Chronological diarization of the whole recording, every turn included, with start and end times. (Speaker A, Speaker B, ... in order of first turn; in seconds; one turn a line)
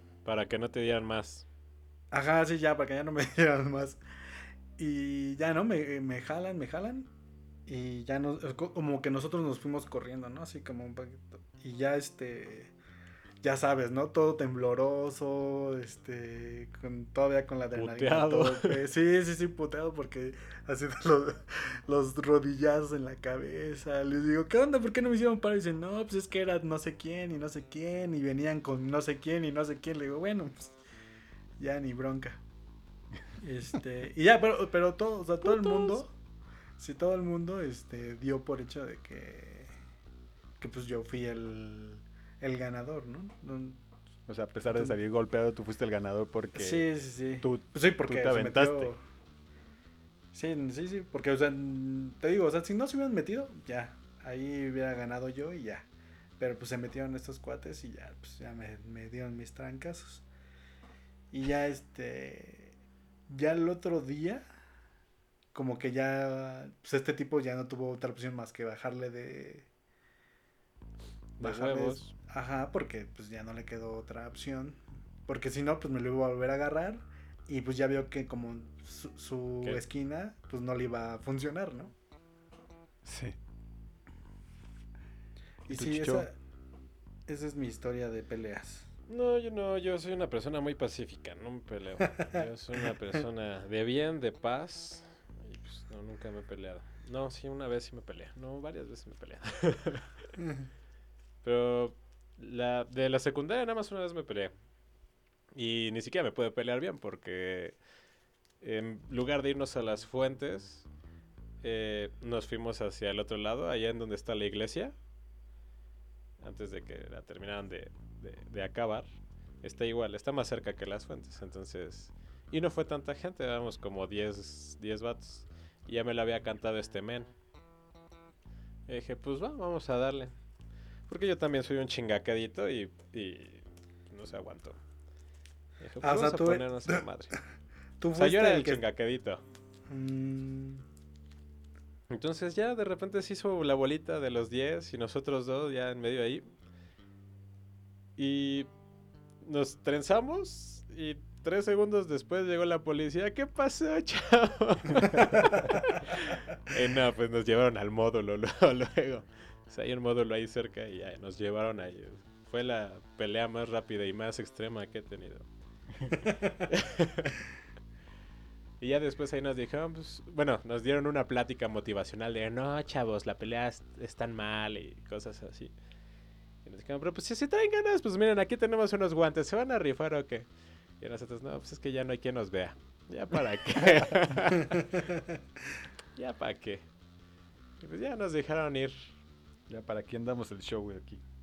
Speaker A: 0.2-1.5
Speaker B: 2.1-4.0
Speaker B: 4.8-7.1
Speaker B: 7.7-12.7
Speaker B: 13.4-30.8
Speaker A: 17.8-18.8
Speaker B: 31.6-32.4
Speaker B: 33.4-36.1
Speaker A: 35.5-36.0
Speaker B: 36.8-39.7
Speaker B: 40.6-43.8
Speaker C: 44.3-46.9
Speaker B: 46.5-49.0
Speaker C: 47.4-48.9
Speaker B: 50.3-55.9
Speaker B: 56.4-60.2
Speaker B: 61.3-62.8
Speaker B: 63.3-64.4
Speaker B: 65.5-69.7
Speaker A: 71.4-72.1
Speaker B: 71.4-81.9
Speaker C: 83.0-83.4
Speaker B: 85.7-86.3
Speaker C: 85.7-86.3
Speaker B: 87.3-88.9
Speaker A: 89.1-100.1
Speaker A: 101.4-104.5
Speaker A: 105.5-107.8
Speaker A: 108.6-110.9
Speaker A: 111.6-115.0
Speaker A: 116.4-119.1
Speaker A: 119.6-127.3
Speaker A: 128.9-130.3
Speaker A: 131.1-134.8
Speaker A: 135.8-137.4
Speaker B: 136.0-137.0
Speaker B: 138.0-138.8
Speaker A: 138.2-139.4
Speaker B: 139.9-140.8
Speaker A: 142.1-146.5
Speaker A: 148.2-148.7
Speaker A: 149.4-165.5
Speaker B: 166.1-166.6
Speaker A: 166.7-167.4
Speaker A: 168.8-175.7
Speaker A: 176.6-180.5
Speaker A: 181.0-185.0
Speaker A: 186.2-186.8
Speaker A: 187.8-189.1
Speaker C: 189.7-191.2